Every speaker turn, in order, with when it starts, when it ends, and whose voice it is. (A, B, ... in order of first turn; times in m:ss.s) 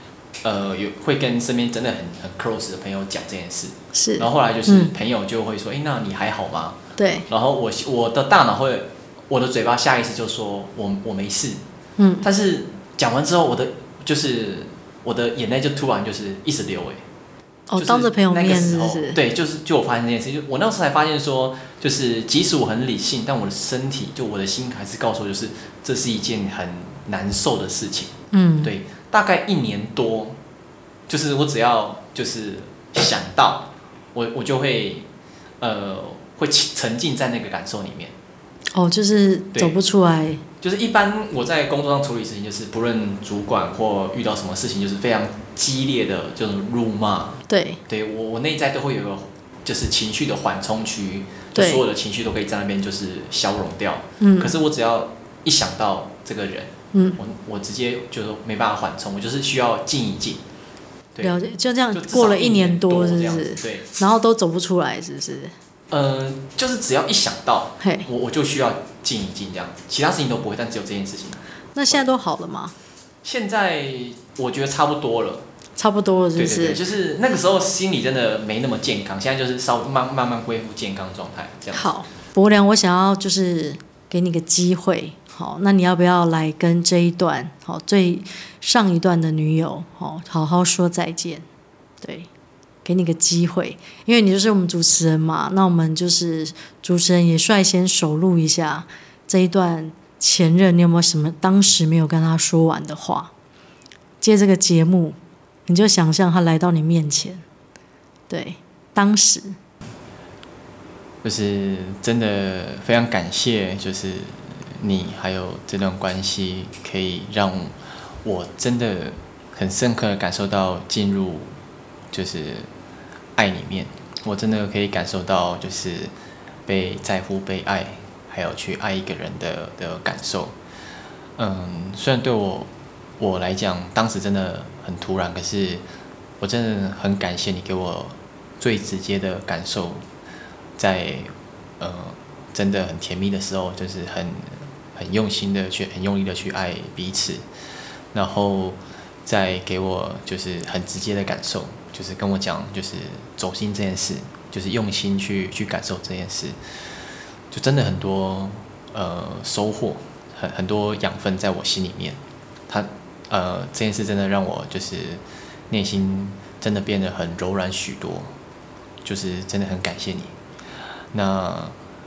0:00.4-0:11.6 A
0:03.9-0:04.9 B
0:07.0-0:07.2 B
0:12.0-0:12.2 B
0:12.2-0:17.0 A
0:17.7-0:19.2 B
0:17.8-0:30.4 A
0:28.3-0:28.7 B
0:31.1-0:35.0 A
0:35.6-0:38.1 A
0:38.7-0:40.4 B
0:40.6-1:00.4 A
0:47.5-0:47.8 B
0:51.5-0:51.8 B
0:54.2-0:54.5 B
0:56.9-0:57.2 B
1:01.2-1:05.5 B
1:01.9-1:03.8 A
1:05.9-1:12.0 A
1:07.8-1:08.1 B
1:11.7-1:12.7 B
1:13.2-1:15.4 A
1:15.8-1:16.8 B
1:16.4-1:21.9 A
1:21.7-1:31.4 B
1:32.0-1:32.3 B
1:32.8-1:43.3 B
1:44.2-1:47.4 B
1:48.3-1:49.6 B
1:51.2-2:01.5 A
2:02.1-2:02.7 A
2:03.4-2:06.1 A
2:06.6-2:10.5 A
2:11.4-2:15.8 A
2:16.4-2:20.0 A
2:20.8-2:27.4 A
2:28.1-2:36.6 A
2:37.5-2:48.3 A
2:49.0-2:50.3 A
2:51.1-2:51.8 A